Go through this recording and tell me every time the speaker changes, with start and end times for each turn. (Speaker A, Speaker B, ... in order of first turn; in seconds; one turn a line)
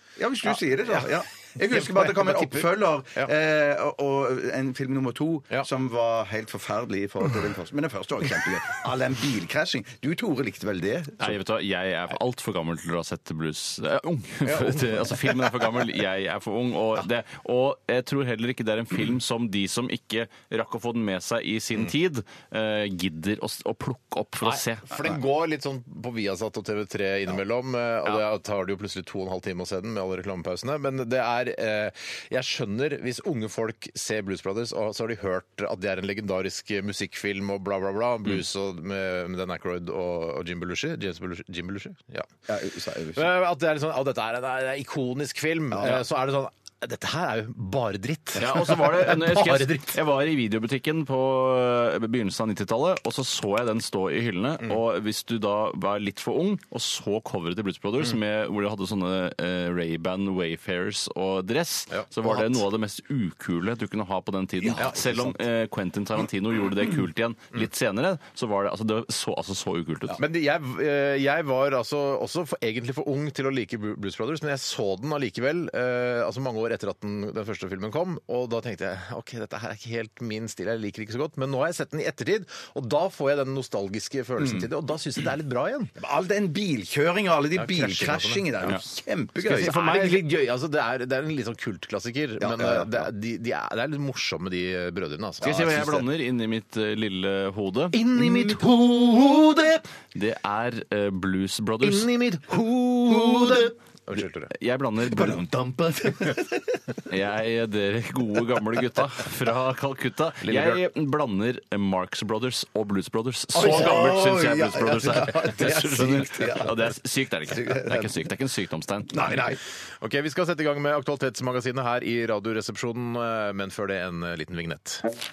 Speaker A: 0.2-11.4
Speaker B: 0.4-3.3
Speaker C: 11.2-25.2
Speaker B: 14.5-15.2
Speaker B: 24.4-42.3
Speaker A: 42.5-43.3
Speaker B: 43.1-50.0
Speaker A: 45.7-46.0
Speaker C: 48.4-70.2
Speaker B: 61.9-62.6
Speaker B: 64.8-65.4
Speaker B: 70.2-85.9
Speaker A: 84.4-84.7
Speaker A: 86.0-89.7
Speaker B: 87.6-88.5
Speaker C: 89.4-90.2
Speaker B: 89.5-96.1
Speaker A: 92.4-93.1
Speaker C: 95.4-98.0
Speaker B: 97.9-99.9
Speaker A: 98.2-98.6
Speaker C: 100.1-102.1
Speaker B: 101.8-104.5
Speaker A: 103.1-103.7
Speaker C: 104.2-105.4
Speaker A: 105.1-106.9
Speaker C: 107.1-119.1
Speaker B: 110.4-110.8
Speaker A: 113.6-116.8
Speaker A: 117.5-118.3
Speaker A: 119.1-119.6
Speaker B: 120.0-125.1